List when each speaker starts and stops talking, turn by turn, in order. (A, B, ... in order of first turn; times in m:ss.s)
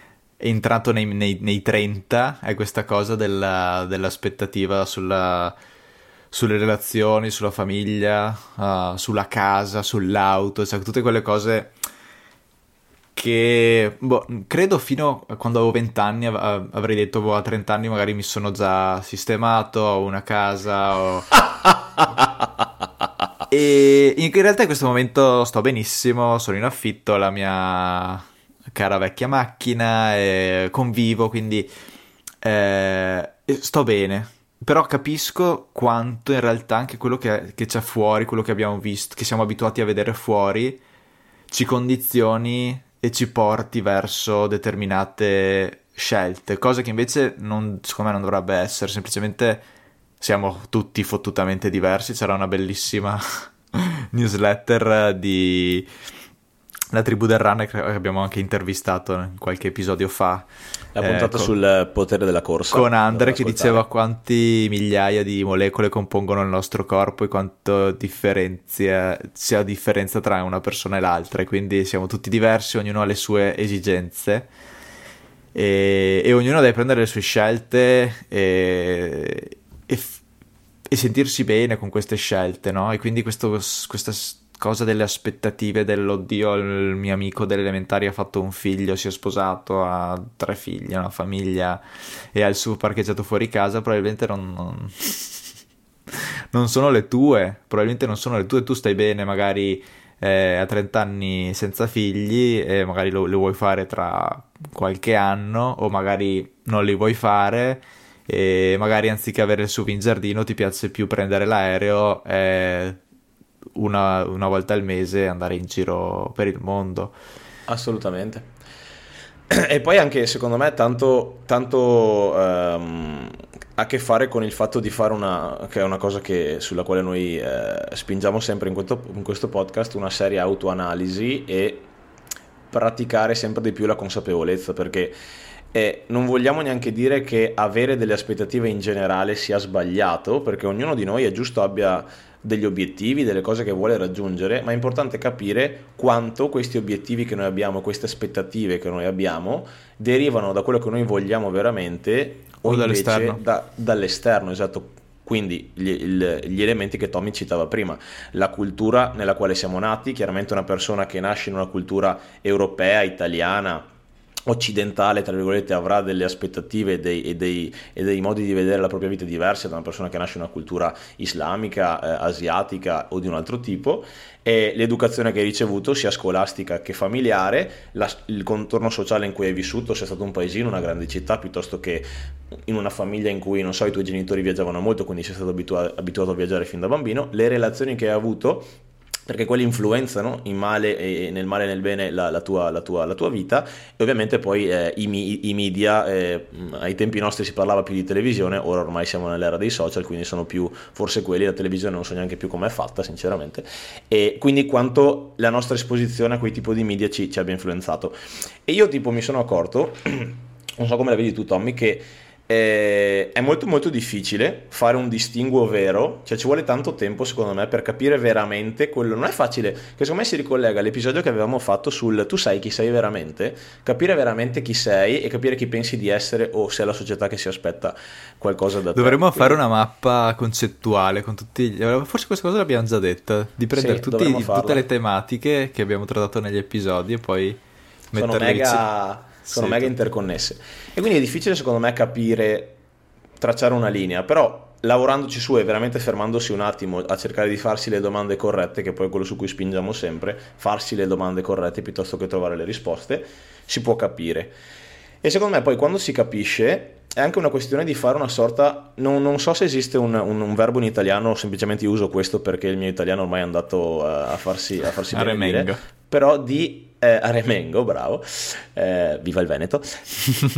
0:00.4-0:05.6 A
0:06.3-0:11.7 A
0:13.2-0:21.4 A
0:23.5-0:31.7 A
0:32.4-0:40.8 A
0:41.5-0:49.7 A
0:50.2-0:55.9 A
0:56.9-1:00.5 A
1:01.0-1:03.9 B
1:01.0-1:01.5 A
1:02.7-1:14.5 A
1:15.5-1:20.2 A
1:20.9-1:31.8 A
1:32.3-1:35.5 A
1:36.1-1:53.0 A
1:53.8-1:57.1 A
1:57.7-1:58.4 B
1:59.5-2:11.9 B
2:12.7-2:15.2 B
2:15.7-2:43.9 B
2:32.6-2:33.4 A
2:44.5-3:02.1 B
3:02.7-3:08.7 B
3:09.3-3:28.2 B
3:28.7-3:49.6 B
3:49.0-3:57.6 A
3:53.7-3:54.8 B
3:58.1-3:58.8 A
3:58.2-4:02.8 B
3:59.4-3:59.9 A
4:03.4-4:14.6 B
4:15.2-4:30.0 B
4:25.1-4:25.8 A